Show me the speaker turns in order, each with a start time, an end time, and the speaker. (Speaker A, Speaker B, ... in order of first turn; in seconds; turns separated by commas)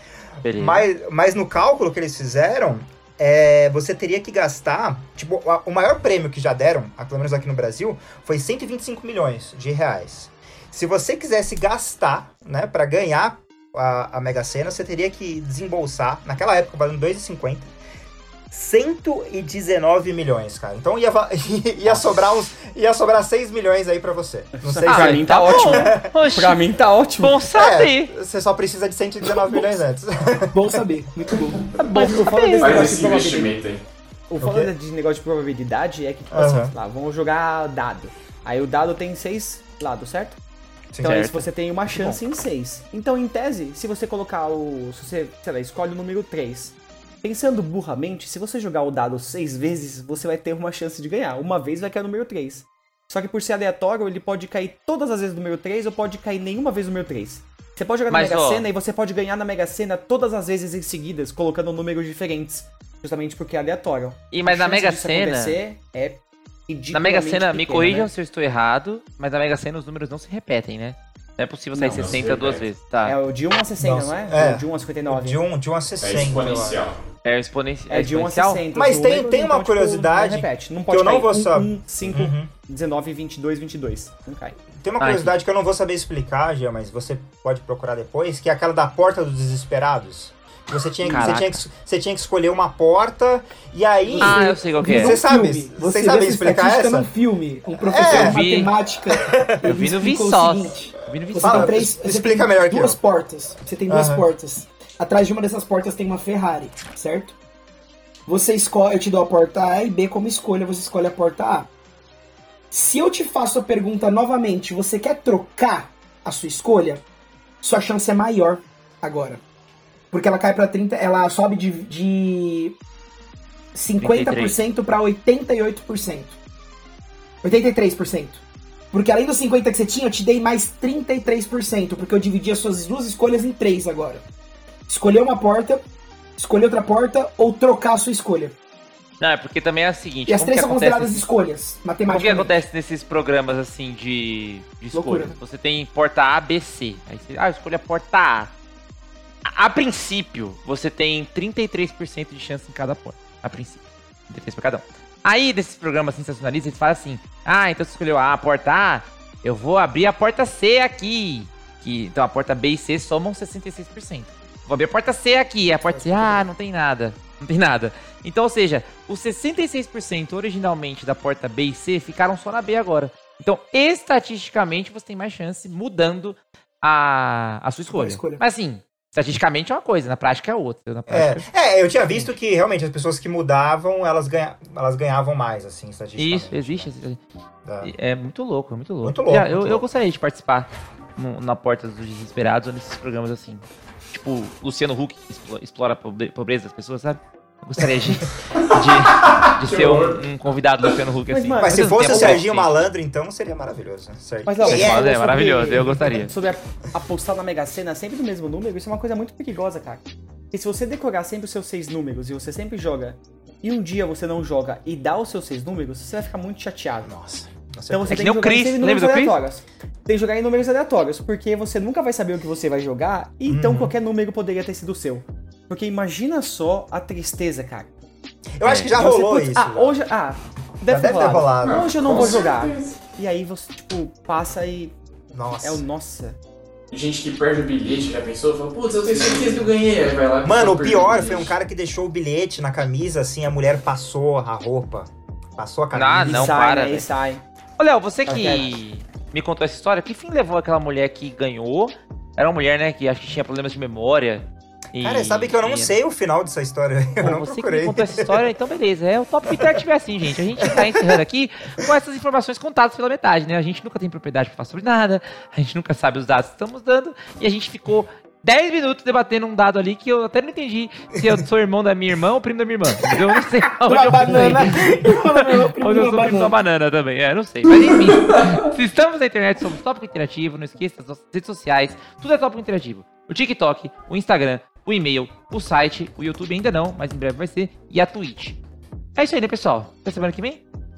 Speaker A: 0.4-0.9, Speaker B: 0.6-17.7, Speaker B: 18.5-26.1, Speaker C: 24.6-27.4, Speaker A: 24.9-26.6, Speaker A: 27.2-28.1, Speaker B: 27.5-30.8, Speaker D: 30.5-31.7, Speaker A: 31.8-32.9, Speaker C: 31.8-33.5, Speaker E: 32.6-33.8, Speaker C: 34.3-40.4, Speaker B: 34.4-34.7, Speaker B: 36.3-36.7, Speaker B: 40.9-41.2, Speaker A: 41.0-42.2, Speaker C: 41.0-68.1, Speaker A: 58.1-58.7, Speaker A: 64.3-65.6, Speaker A: 66.9-73.2, Speaker C: 71.7-75.4, Speaker E: 71.9-72.7, Speaker B: 73.8-76.8, Speaker E: 76.0-77.0, Speaker A: 77.2-78.6, Speaker C: 77.9-84.6, Speaker B: 78.7-82.5, Speaker B: 84.7-97.1, Speaker A: 85.0-85.3, Speaker A: 91.0-91.7, Speaker D: 94.1-107.4, Speaker A: 94.2-95.2, Speaker B: 97.7-98.5, Speaker A: 98.1-98.7, Speaker B: 99.2-99.7, Speaker A: 99.6-101.8, Speaker B: 101.4-103.0, Speaker B: 103.9-104.3, Speaker D: 108.3-111.7, Speaker D: 112.7-117.0, Speaker D: 117.6-119.4, Speaker D: 120.1-122.8, Speaker D: 123.8-126.4, Speaker A: 124.0-124.6, Speaker D: 127.4-134.2, Speaker D: 134.9-135.8, Speaker D: 136.4-138.6, Speaker A: 139.2-141.2, Speaker D: 140.3-142.6, Speaker A: 142.1-148.5, Speaker D: 144.9-145.4, Speaker A: 149.4-181.5, Speaker D: 165.9-166.4, Speaker D: 177.9-178.4, Speaker B: 181.1-186.9, Speaker A: 186.2-187.2, Speaker B: 187.6-187.9, Speaker A: 187.8-202.8, Speaker B: 189.0-189.9, Speaker E: 198.6-200.2, Speaker C: 201.3-202.4, Speaker B: 201.6-205.1, Speaker C: 204.5-217.1, Speaker A: 204.6-206.3, Speaker B: 217.1-218.3, Speaker C: 217.9-227.9, Speaker A: 218.1-219.4, Speaker B: 223.5-223.9, Speaker B: 228.6-230.0, Speaker A: 228.6-228.9, Speaker C: 229.0-234.9, Speaker B: 230.8-232.5, Speaker E: 231.6-233.0, Speaker B: 235.3-235.8, Speaker C: 235.5-236.4, Speaker E: 236.9-241.5, Speaker B: 240.4-246.6, Speaker A: 245.9-247.1, Speaker C: 246.2-247.4, Speaker A: 247.8-255.9, Speaker C: 248.3-248.7, Speaker B: 255.0-258.5, Speaker A: 257.2-288.6, Speaker B: 260.6-261.2, Speaker D: 273.9-276.6, Speaker A: 289.1-290.6